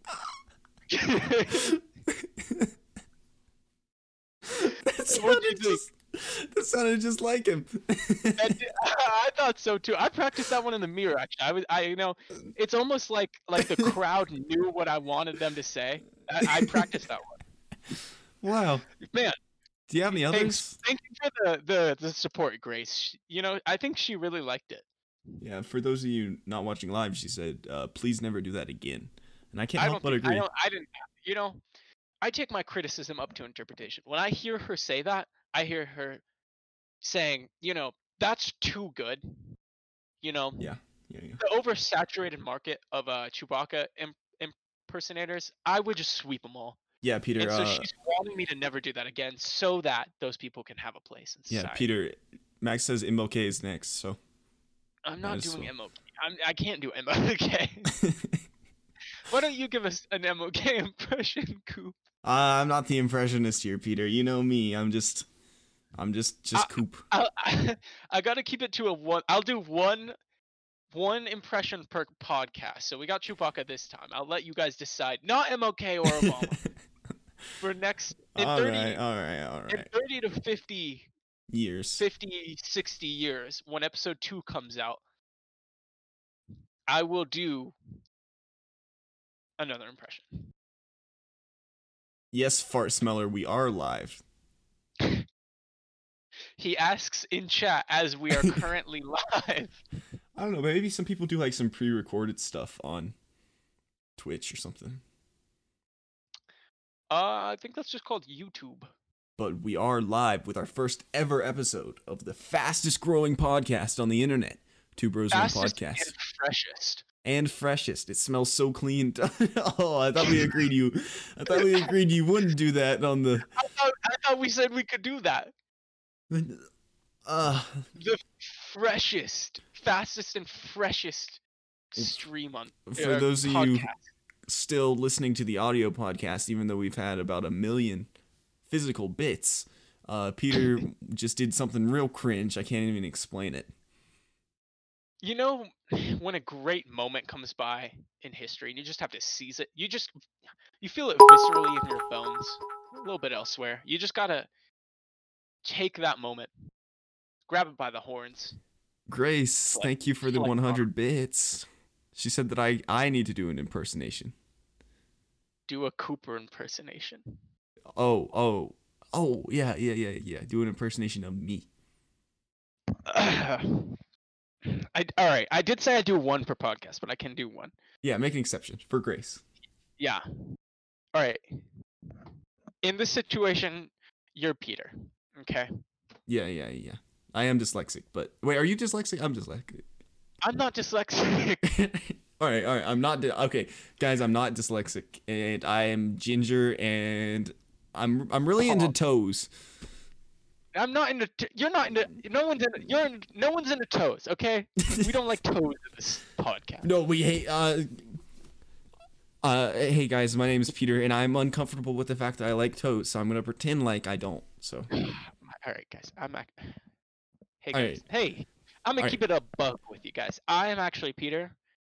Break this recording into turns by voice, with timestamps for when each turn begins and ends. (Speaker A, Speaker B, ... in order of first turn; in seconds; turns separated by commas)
Speaker A: 0.9-1.8, Speaker B: 2.1-2.7, Speaker B: 4.5-8.6, Speaker A: 5.0-5.8, Speaker A: 8.4-17.4, Speaker B: 16.4-16.9, Speaker B: 18.4-18.9, Speaker A: 19.0-19.4, Speaker B: 19.9-20.8, Speaker A: 20.1-24.9, Speaker B: 25.4-30.4, Speaker A: 29.8-31.6, Speaker A: 32.2-36.2, Speaker A: 37.0-39.5, Speaker A: 40.2-40.6, Speaker B: 40.6-41.4, Speaker A: 41.4-46.8, Speaker B: 47.0-47.9, Speaker A: 47.4-51.9, Speaker B: 51.5-54.2, Speaker A: 55.0-57.9, Speaker B: 55.2-55.7, Speaker B: 57.9-58.4, Speaker A: 59.2-62.0, Speaker B: 62.2-65.2, Speaker B: 66.0-67.0, Speaker A: 66.5-70.2, Speaker A: 70.9-76.6, Speaker B: 76.1-76.7, Speaker A: 77.6-79.0, Speaker B: 78.3-79.9, Speaker A: 79.7-81.1, Speaker B: 81.5-82.0, Speaker A: 82.0-85.0, Speaker A: 86.9-87.8, Speaker A: 89.6-90.5, Speaker B: 92.3-94.2, Speaker A: 95.0-95.2, Speaker A: 96.6-99.8, Speaker B: 100.3-103.1, Speaker B: 104.2-105.0, Speaker A: 107.1-108.9, Speaker B: 109.4-116.1, Speaker A: 115.3-117.0, Speaker B: 117.2-123.5, Speaker A: 120.2-120.6, Speaker A: 121.5-121.9, Speaker A: 123.5-125.5, Speaker B: 126.3-126.7, Speaker B: 127.2-127.9, Speaker A: 128.0-131.4, Speaker A: 131.9-134.0, Speaker B: 132.9-133.9, Speaker B: 134.5-138.1, Speaker B: 138.7-143.7, Speaker A: 145.2-150.2, Speaker A: 150.8-154.5, Speaker A: 155.6-156.5, Speaker A: 157.5-158.6, Speaker B: 159.1-164.3, Speaker A: 159.7-160.9, Speaker A: 165.7-167.2, Speaker B: 167.9-171.7, Speaker A: 173.1-174.0, Speaker A: 174.6-177.7, Speaker B: 178.0-179.4, Speaker A: 180.0-180.2, Speaker A: 181.1-182.3, Speaker A: 182.8-185.7, Speaker B: 186.3-189.8, Speaker A: 190.4-191.6, Speaker B: 191.6-199.5, Speaker A: 198.6-198.9, Speaker A: 200.7-206.9, Speaker B: 204.8-205.1, Speaker B: 206.8-208.1, Speaker B: 209.4-214.9, Speaker A: 214.9-216.8, Speaker A: 217.6-221.5, Speaker B: 217.7-218.0